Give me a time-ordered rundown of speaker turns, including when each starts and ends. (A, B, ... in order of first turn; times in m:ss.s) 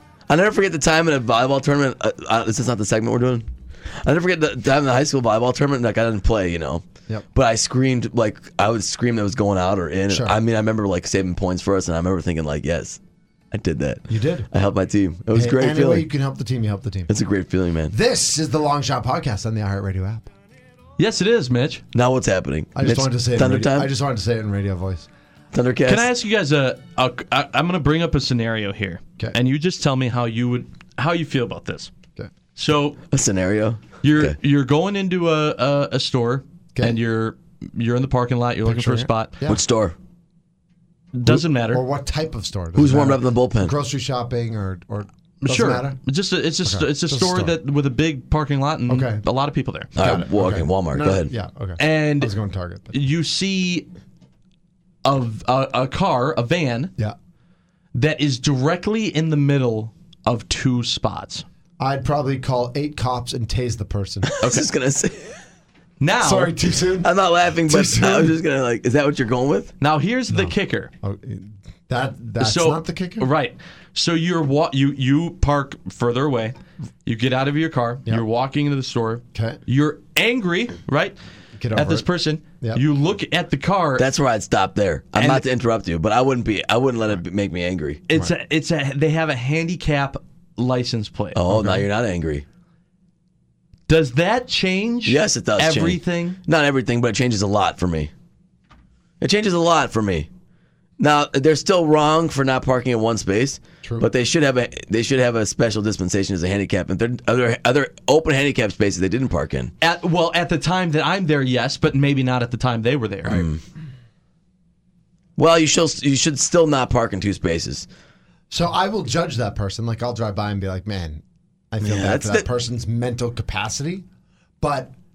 0:00.3-0:03.4 A
0:04.0-0:06.8 A
0:07.3-0:13.0 A
0:10.1-0:10.4 B
0:13.5-0:16.1 A
0:14.1-0:14.5 B
0:15.3-0:17.1 B
0:17.1-0:17.9 A
0:17.9-0:20.3 B
0:21.0-0:21.8 C
0:21.9-0:23.9 A
0:22.7-0:25.1 B
0:25.5-0:26.1 A
0:25.8-0:31.9 C
0:32.6-0:33.0 C
0:33.1-0:34.3 A
0:34.0-0:39.3 C
0:38.6-0:39.6 B
0:39.5-0:39.9 A
0:41.1-0:41.8 C
0:41.2-0:46.0 B
0:42.7-0:43.7 A
0:45.4-0:49.9 C
0:46.6-0:47.6 B
0:48.9-0:49.2 B
0:50.0-0:51.3 A
0:50.0-0:53.0 B
0:51.8-0:52.3 C
0:52.9-0:53.9 C
0:55.0-0:56.9 C
0:57.9-1:01.4 C
1:01.8-1:04.3 B
1:04.3-1:05.4 A
1:06.0-1:06.6 C
1:06.2-1:07.1 B
1:07.0-1:09.7 A
1:07.6-1:08.4 B
1:09.8-1:10.9 C
1:10.3-1:13.3 B
1:12.4-1:21.2 C
1:19.3-1:19.6 B
1:21.6-1:22.1 B
1:21.7-1:24.0 C
1:24.0-1:28.0 A
1:25.2-1:25.4 C
1:28.1-1:31.4 C
1:31.3-1:32.4 A
1:31.5-1:31.8 B
1:33.9-1:36.4 C
1:35.0-1:38.1 A
1:39.2-1:40.3 A
1:41.0-1:49.7 A
1:43.8-1:44.1 B
1:49.8-1:53.4 C
1:53.2-1:53.6 A
1:55.4-1:57.8 A
1:58.5-2:04.0 B
2:01.8-2:02.5 A
2:04.6-2:04.9 B